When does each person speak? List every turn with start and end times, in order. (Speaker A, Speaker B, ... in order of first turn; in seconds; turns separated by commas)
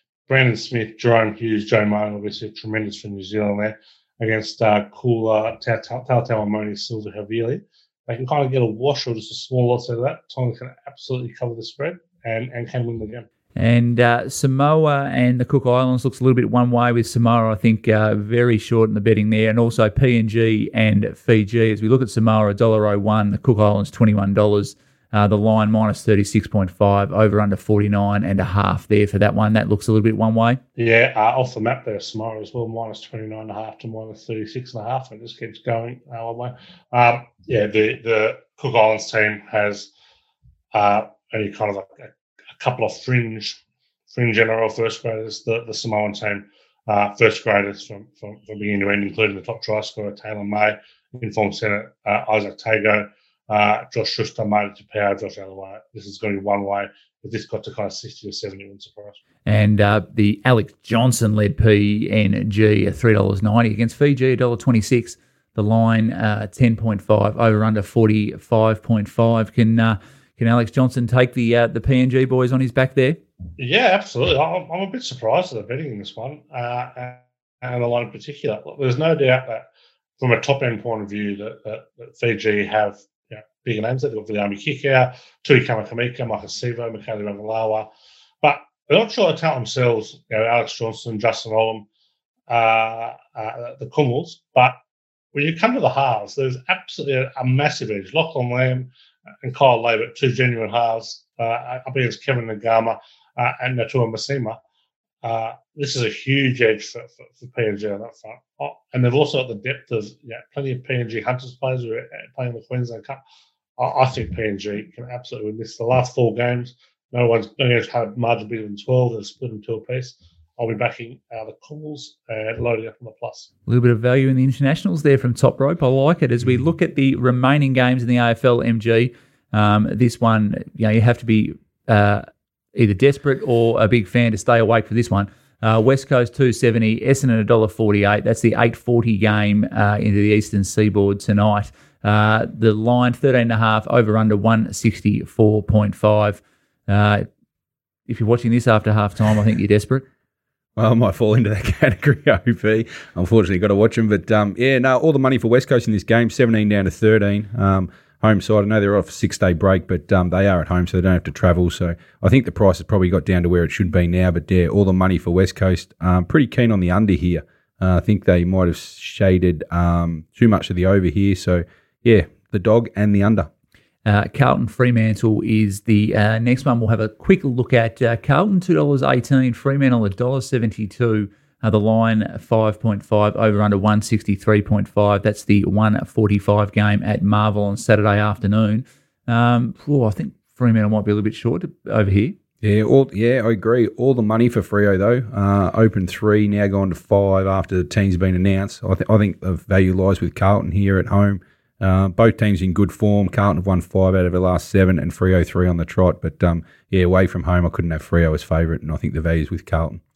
Speaker A: 0.3-13.3, Speaker B: 13.6-30.6, Speaker A: 30.8-39.9, Speaker A: 40.7-43.6, Speaker A: 44.1-59.2, Speaker B: 59.5-73.2, Speaker A: 73.6-79.7, Speaker A: 80.2-87.9, Speaker A: 88.4-91.9, Speaker A: 92.5-94.8, Speaker A: 95.3-98.9, Speaker A: 99.4-104.6, Speaker A: 105.2-113.2, Speaker A: 113.8-123.5, Speaker B: 123.7-147.3, Speaker B: 148.1-150.1, Speaker C: 150.8-173.5, Speaker B: 174.1-192.4, Speaker C: 192.6-210.0